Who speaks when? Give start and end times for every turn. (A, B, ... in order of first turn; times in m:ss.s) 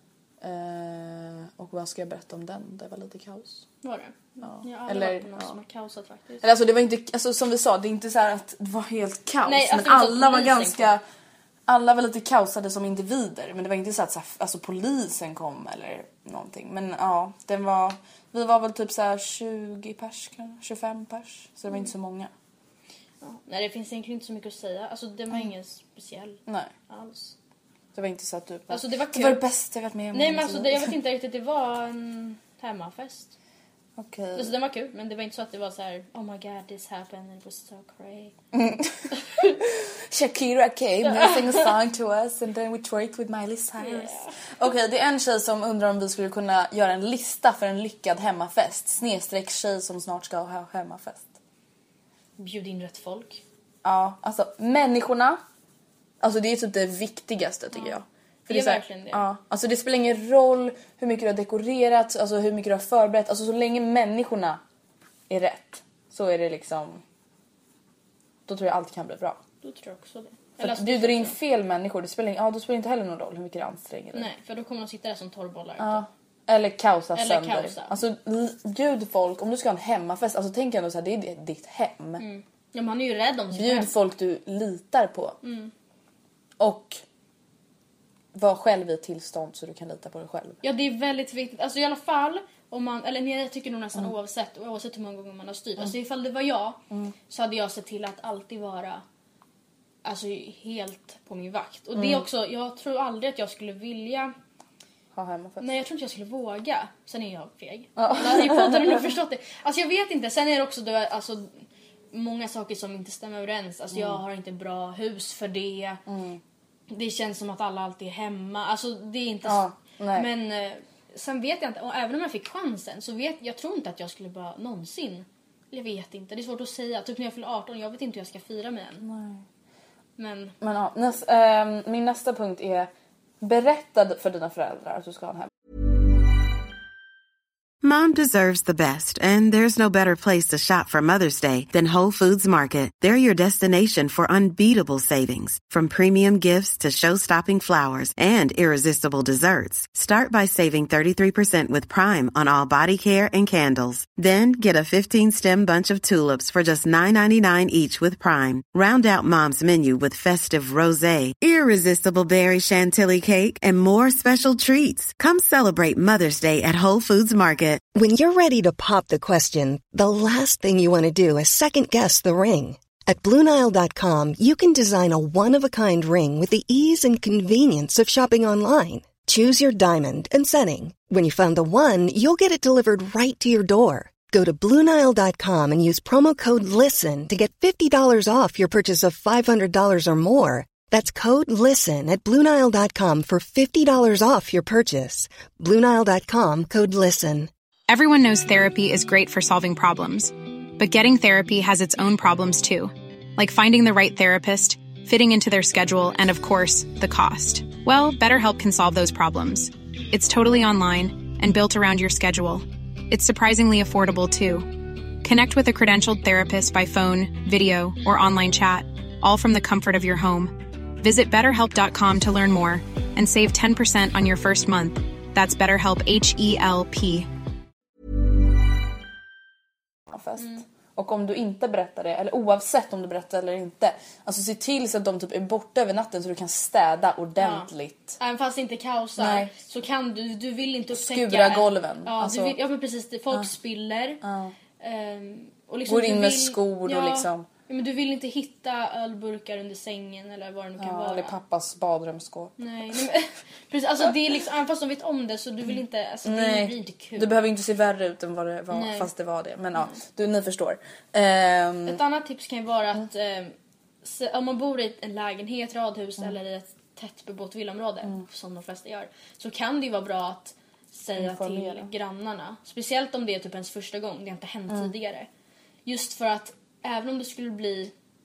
0:00.4-0:03.6 A
0:03.8-0:06.4 B
0:04.4-0:05.6 A
0:06.4-0:11.0 A
0:09.4-0:10.9 B
0:11.7-0:22.3 A
0:23.2-0:27.4 B
0:27.9-0:30.9 A
0:28.7-0:29.4 B
0:30.1-0:33.3 B
0:34.0-0:34.5 A
0:34.4-0:38.3 B
0:38.5-0:51.3 A
0:39.2-0:39.6 B
0:41.0-0:41.7 B
0:43.8-0:44.4 B
0:52.4-0:53.4 B
0:53.8-0:55.4 A
0:56.2-1:04.6 A
0:58.5-0:59.2 B
1:05.3-1:07.0 A
1:08.5-1:09.4 A
1:09.6-1:11.4 B
1:10.6-1:14.3 A
1:14.1-1:16.0 B
1:15.8-1:22.2 A
1:17.1-1:17.9 B
1:22.2-1:23.9 B
1:23.5-1:25.4 A
1:25.4-1:25.7 B
1:26.6-1:27.0 A
1:28.3-1:30.6 A
1:30.6-1:39.0 B
1:40.0-1:44.3 B
1:42.0-1:42.2 A
1:45.1-1:45.7 A
1:45.6-1:56.0 B
1:48.0-1:49.1 A
1:53.9-1:54.2 A
1:56.1-1:56.4 A
1:56.9-2:09.0 B
1:59.4-2:00.3 A
2:09.0-2:09.4 A
2:10.2-2:10.6 B
2:10.6-2:15.5 A
2:17.8-2:47.8 C
2:47.9-3:17.5 D
3:17.9-3:47.3 E
3:50.1-3:58.2 A
3:50.4-3:50.6 B
3:57.4-4:04.2 B
3:59.2-3:59.5 A
4:00.9-4:02.6 A
4:04.2-4:04.5 A
4:04.8-4:11.4 B
4:05.9-4:07.5 A
4:10.8-4:13.0 A
4:12.6-4:17.4 B
4:16.2-4:22.0 A
4:18.7-4:19.1 B
4:21.9-4:35.3 B
4:31.2-4:31.9 A
4:35.9-4:37.9 B